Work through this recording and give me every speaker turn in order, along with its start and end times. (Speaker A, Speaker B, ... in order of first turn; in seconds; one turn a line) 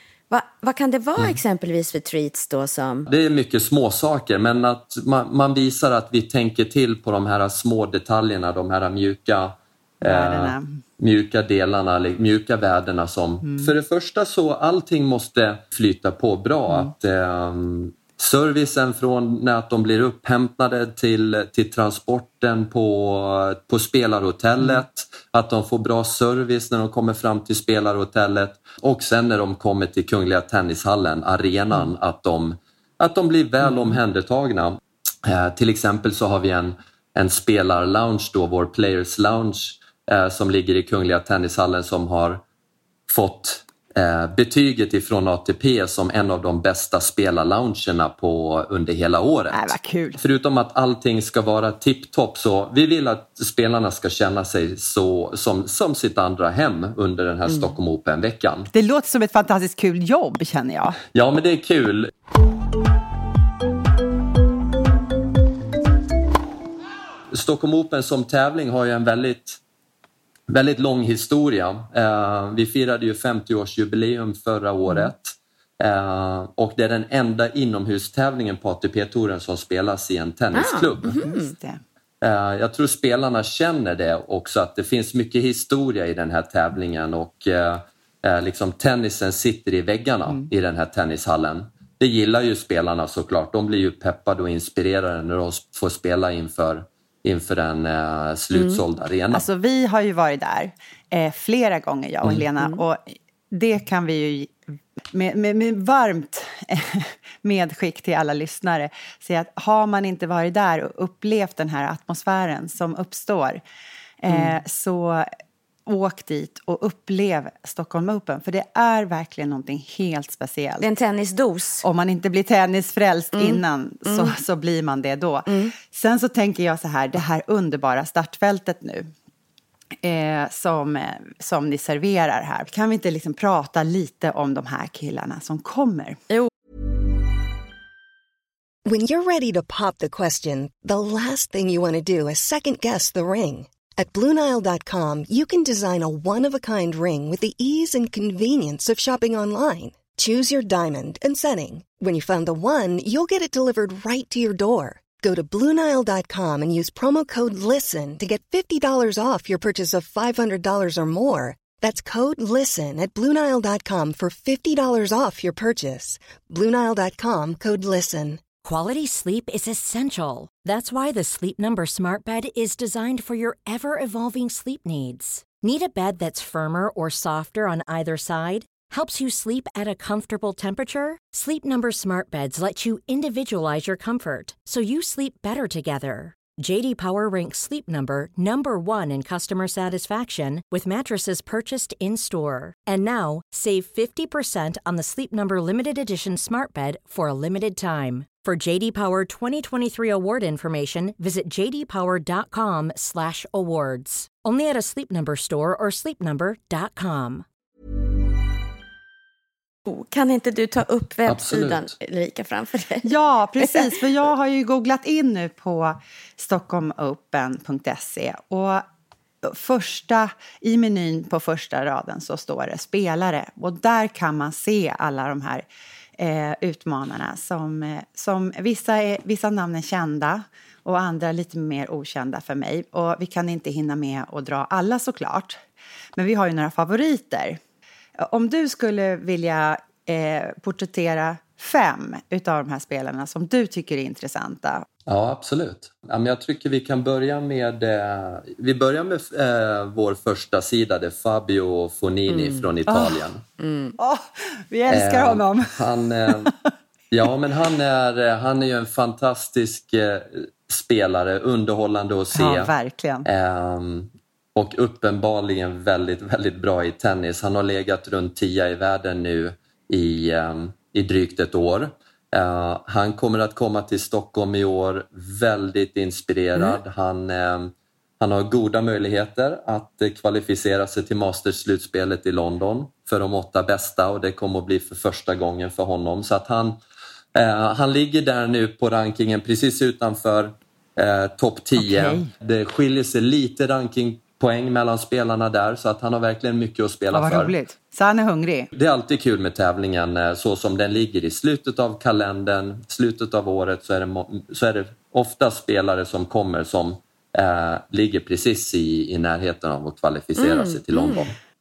Speaker A: 0.3-3.1
Speaker B: 3.1-42.4
Speaker C: 10.0-10.8
Speaker C: 13.4-13.7
Speaker C: 33.6-34.0
Speaker B: 43.1-58.7
Speaker C: 49.5-50.2
Speaker A: 57.5-57.8
Speaker C: 58.7-61.0
Speaker B: 61.1-62.1
Speaker B: 67.3-69.6
Speaker B: 70.5-81.2
Speaker A: 80.5-81.5
Speaker C: 81.1-81.8
Speaker B: 82.2-99.5
Speaker A: 98.5-98.8
Speaker C: 99.3-104.6
Speaker C: 105.1-113.6
Speaker C: 114.2-115.3
Speaker C: 115.8-120.9
Speaker A: 120.8-121.8
Speaker C: 121.8-129.1
Speaker A: 123.3-124.4
Speaker A: 125.5-125.7
Speaker C: 130.0-136.2
Speaker D: 138.8-168.4
Speaker E: 168.6-207.4
Speaker A: 209.8-213.9
Speaker B: 211.3-211.9
Speaker C: 213.0-218.8
Speaker C: 219.4-225.7
Speaker C: 226.2-235.6
Speaker C: 236.2-237.6
Speaker C: 238.2-244.8
Speaker B: 245.1-253.4
Speaker A: 252.3-252.7
Speaker C: 252.9-253.2
Speaker A: 253.6-253.9
Speaker C: 254.0-255.7
Speaker B: 254.9-256.5
Speaker C: 256.3-256.5
Speaker B: 257.1-262.7
Speaker C: 262.3-263.3
Speaker B: 263.2-286.8
Speaker B: 287.3-297.5
Speaker C: 291.8-292.3
Speaker C: 297.1-298.7
Speaker B: 298.7-311.4
Speaker A: 310.4-311.3